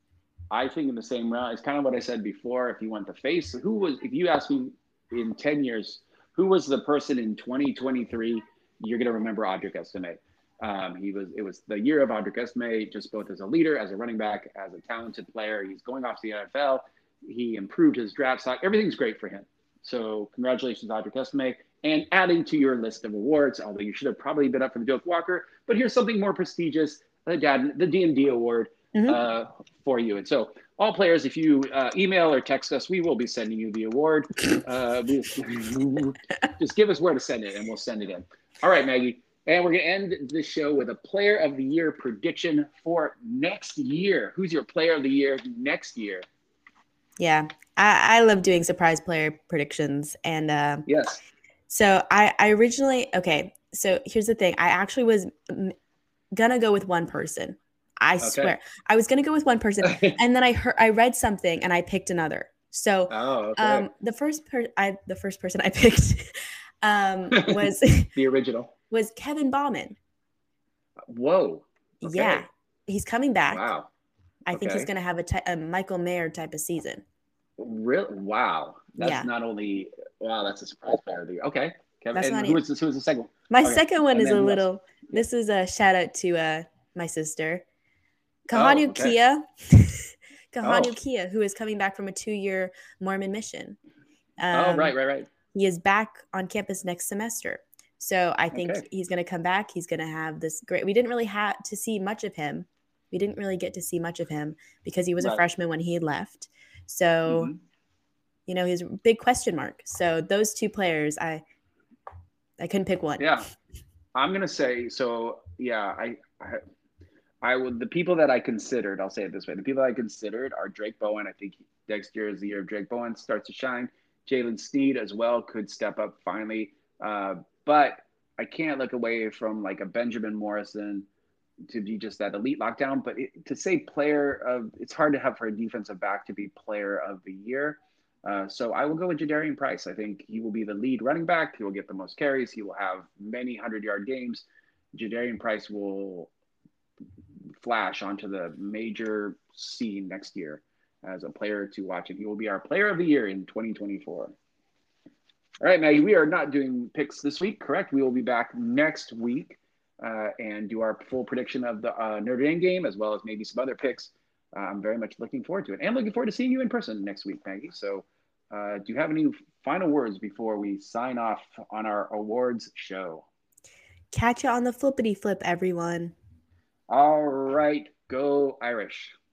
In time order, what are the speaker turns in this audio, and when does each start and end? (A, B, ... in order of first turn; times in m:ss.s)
0:00.5-0:46.2 A
0:47.2-0:50.9 B
0:50.8-0:51.2 A
0:51.7-0:55.7 B
0:56.3-1:08.1 B
0:58.2-0:58.6 A
0:59.8-1:00.2 A
1:03.1-1:03.9 A
1:07.3-1:08.7 A
1:08.9-1:10.0 B
1:11.0-1:12.5 A
1:12.0-1:13.7 B
1:13.5-1:13.9 A
1:14.5-1:17.0 B
1:14.5-1:14.9 A
1:17.6-1:25.2 A
1:19.0-1:19.3 B
1:22.1-1:22.6 B
1:23.5-1:27.6 B
1:28.5-1:33.8 B
1:28.5-1:29.1 A
1:30.6-1:30.9 A
1:34.4-1:34.9 B
1:34.5-1:35.3 A
1:35.5-1:47.5 B
1:38.5-1:38.8 A
1:47.3-1:47.6 A
1:48.5-1:51.4 B
1:52.6-1:53.3 B
1:53.2-1:53.4 A
1:54.1-1:56.6 A
1:57.4-2:11.1 A
2:11.7-2:26.3 A
2:27.6-2:34.3 A
2:35.6-2:53.3 A
2:54.1-2:56.1 B
2:56.9-2:59.2 A